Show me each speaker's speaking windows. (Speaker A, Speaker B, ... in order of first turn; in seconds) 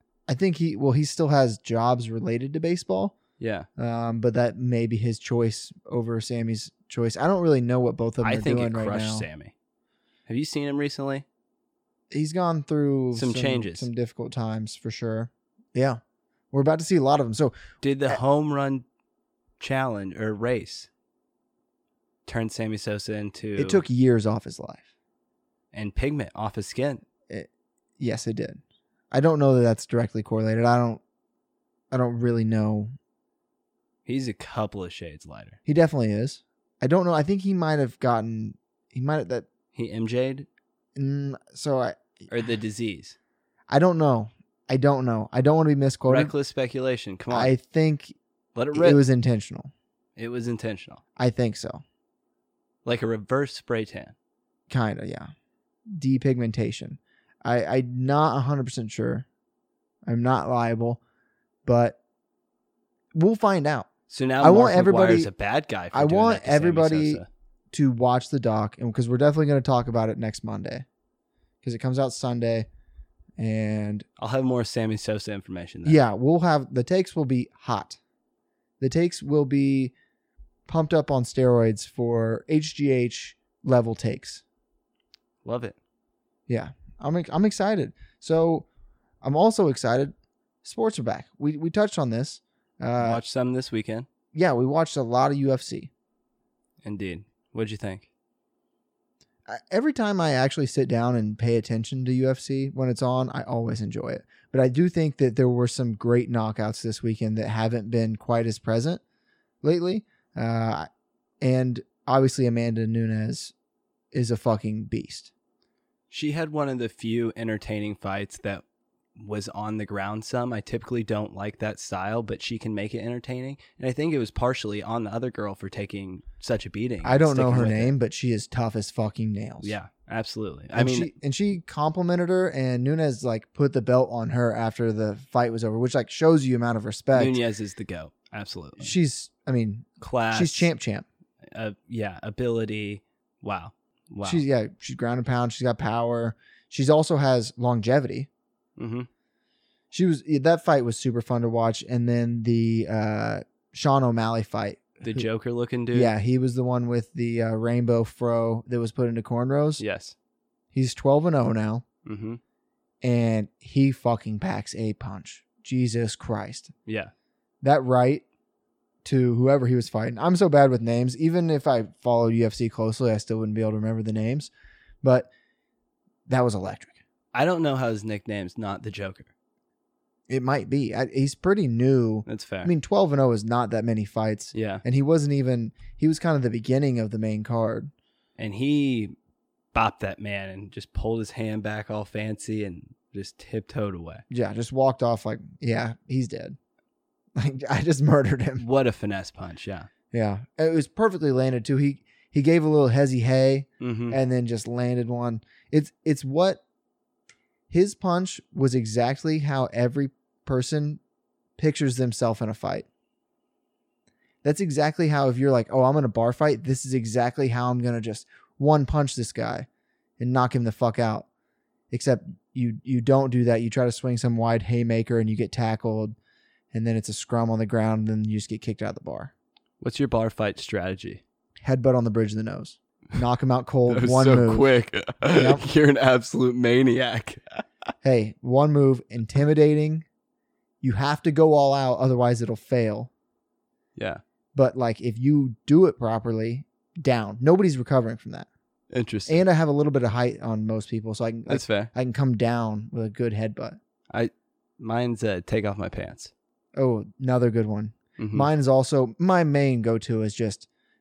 Speaker A: 0.3-3.1, 3.8-9.2, 12.1-16.0, 16.5-17.6, 23.6-24.9, 28.0-31.0, 31.9-32.9, 35.6-39.5, 41.0-42.3, 43.7-46.3, 47.3-48.1, 48.7-49.7, 51.2-51.8, 54.7-55.3, 55.9-59.2, 60.0-61.0, 61.6-62.0, 63.1-63.9, 64.4-65.3, 65.9-70.8, 71.6-72.7, 73.4-74.0, 75.8-78.0, 78.8-79.9, 80.7-84.4, 86.5-88.7, 89.2-93.2, 94.3-95.9, 99.5-109.0, 109.6-110.9, 111.4-113.5, 114.1-115.3, 127.0-129.8, 130.7-137.4, 138.8-141.1, 144.2-148.3, 149.9-155.3, 155.9-159.8, 160.7-161.8, 163.0-166.7, 167.6-168.2, 169.0-174.5, 175.0-175.3, 176.3-177.0, 180.3-187.9, 194.3-196.6, 197.4-198.6, 200.1-206.6, 207.7-211.0, 211.6-212.8, 214.4-219.7, 220.2-221.3, 221.9-226.1, 226.7-229.3, 231.6-234.7, 235.3-235.6, 238.0-240.1, 240.8-243.1, 244.5-248.5, 249.3-253.8, 256.8-260.7
Speaker B: 3.4-3.7, 8.2-9.5, 10.3-11.2, 13.1-13.9, 17.8-18.8, 19.6-20.9, 22.2-23.8, 25.7-27.0, 34.0-35.6, 39.7-40.5, 42.3-43.1, 46.1-47.5, 48.5-49.0, 50.2-51.0, 52.8-54.1, 64.1-67.3, 74.2-76.0, 85.4-85.8, 93.0-94.1, 96.8-98.1, 116.1-118.6, 119.2-127.9, 129.6-131.1, 137.1-138.9, 140.0-140.7, 141.4-144.4, 148.8-149.1, 155.0-156.1, 159.8-160.1, 162.0-162.4, 166.8-167.1, 177.3-179.3, 182.2-182.7, 184.5-184.8, 188.4-189.2, 189.7-194.2, 198.6-199.9, 203.8-204.2, 229.8-231.2, 233.9-237.6, 243.9-244.2, 248.9-249.4, 251.5-251.9, 254.1-256.3, 258.2-258.5